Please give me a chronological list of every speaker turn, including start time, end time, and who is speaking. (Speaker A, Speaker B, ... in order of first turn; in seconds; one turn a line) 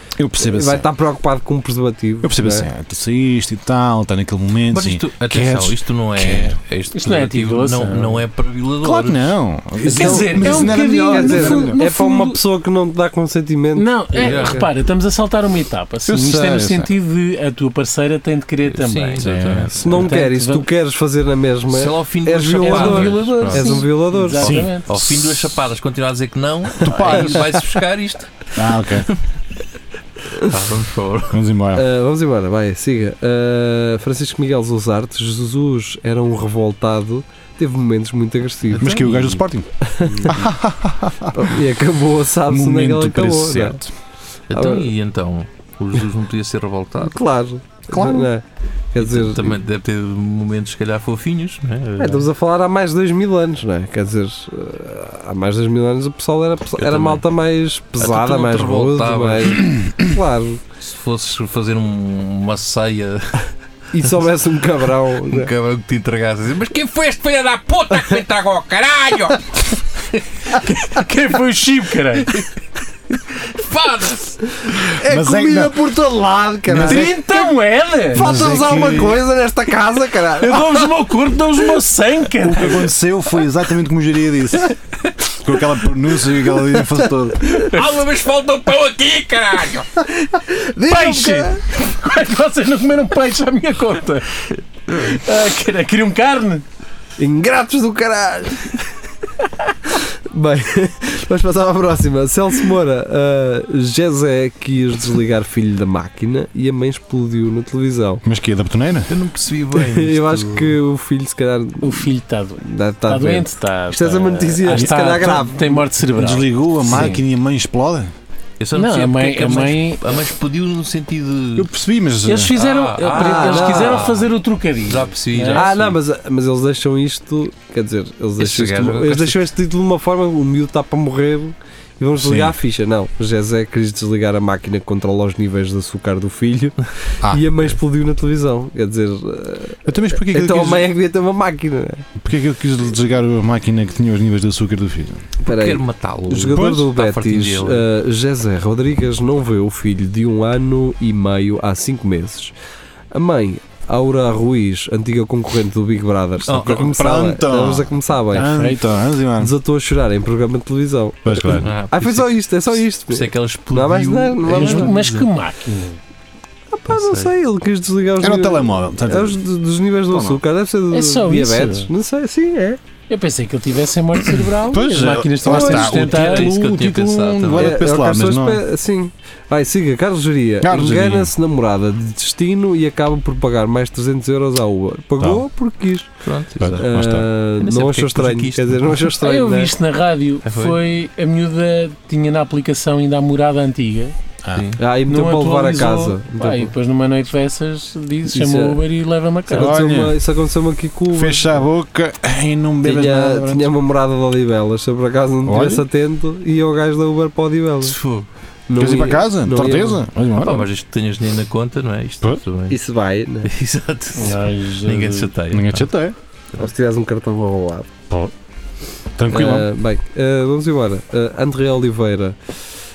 Speaker A: 0.2-0.9
Speaker B: 0.4-2.7
Speaker A: 2.2-6.6
Speaker C: 4.7-9.3
Speaker D: 6.9-8.2
Speaker A: 8.8-11.8
Speaker D: 9.8-12.4
Speaker B: 10.1-14.7
Speaker D: 13.7-19.3
Speaker C: 14.1-14.7
Speaker A: 16.1-16.9
Speaker C: 18.7-20.1
Speaker A: 19.2-20.1
Speaker B: 19.8-24.6
Speaker D: 19.9-20.6
Speaker C: 21.7-23.4
Speaker D: 22.6-24.9
Speaker A: 23.3-23.8
Speaker C: 24.4-28.5
Speaker A: 26.8-27.5
Speaker B: 27.0-27.7
Speaker A: 28.5-29.1
Speaker C: 30.4-31.4
Speaker A: 31.3-31.8
Speaker B: 31.7-38.9
Speaker C: 38.7-39.4
Speaker A: 38.8-39.7
Speaker B: 39.8-40.4
Speaker A: 40.2-41.6
Speaker B: 41.3-43.8
Speaker A: 42.5-43.9
Speaker C: 44.5-47.2
Speaker B: 44.5-44.9
Speaker B: 47.0-49.6
Speaker A: 47.9-48.3
Speaker C: 49.0-52.3
Speaker B: 52.0-60.6
Speaker C: 56.8-57.2
Speaker C: 58.0-59.7
Speaker C: 60.8-63.5
Speaker B: 63.9-65.5
Speaker C: 65.2-70.2
Speaker D: 70.5-72.4
Speaker C: 73.3-74.4
Speaker B: 74.6-77.4
Speaker A: 75.0-76.1
Speaker A: 76.6-77.2
Speaker D: 76.7-78.2
Speaker A: 78.1-79.2
Speaker B: 78.1-80.9
Speaker D: 80.4-82.8
Speaker A: 82.4-84.7
Speaker A: 85.3-87.7
Speaker C: 87.5-90.0
Speaker D: 90.4-96.6
Speaker B: 90.5-91.6
Speaker B: 97.2-98.8
Speaker B: 99.9-108.2
Speaker A: 108.2-109.1
Speaker C: 109.1-110.8
Speaker B: 109.7-112.1
Speaker D: 111.8-117.2
Speaker B: 112.6-115.8
Speaker A: 114.7-115.5
Speaker A: 116.1-118.1
Speaker C: 118.6-121.7
Speaker D: 118.7-120.0
Speaker A: 121.5-122.5
Speaker D: 122.2-125.7
Speaker C: 122.5-124.3
Speaker B: 123.0-124.1
Speaker C: 124.9-126.0
Speaker B: 125.5-142.1
Speaker C: 128.4-129.4
Speaker A: 132.2-132.5
Speaker A: 137.2-137.5
Speaker A: 139.8-140.9
Speaker A: 142.2-145.3
Speaker C: 145.4-147.9
Speaker B: 145.4-152.5
Speaker A: 146.5-146.9
Speaker B: 153.1-158.5
Speaker C: 156.4-157.0
Speaker A: 156.5-159.5
Speaker D: 158.3-158.8
Speaker B: 159.4-165.0
Speaker A: 161.2-161.7
Speaker C: 161.5-165.3
Speaker D: 164.5-166.0
Speaker B: 166.7-172.8
Speaker C: 166.9-167.3
Speaker A: 168.2-169.4
Speaker A: 170.1-170.4
Speaker D: 170.9-171.9
Speaker D: 173.1-176.5
Speaker A: 174.6-178.6
Speaker C: 175.5-177.8
Speaker B: 177.5-186.1
Speaker A: 180.6-181.3
Speaker A: 185.2-185.4
Speaker C: 186.2-186.9
Speaker A: 186.6-187.3
Speaker B: 186.7-189.7
Speaker C: 187.6-189.1
Speaker D: 189.2-194.1
Speaker C: 190.4-190.8
Speaker C: 194.5-194.8
Speaker B: 194.8-196.7
Speaker D: 195.1-199.8
Speaker B: 198.3-198.8
Speaker B: 199.5-201.6
Speaker A: 199.5-200.2
Speaker A: 201.1-203.7
Speaker B: 202.8-207.9
Speaker A: 205.4-205.8
Speaker C: 207.8-208.2
Speaker B: 208.7-210.0
Speaker A: 208.7-210.7
Speaker C: 210.3-212.8
Speaker B: 212.7-213.5
Speaker C: 213.4-215.8
Speaker D: 214.2-215.3
Speaker A: 215.5-216.1
Speaker B: 216.6-217.9
Speaker A: 219.2-219.7
Speaker B: 219.3-222.4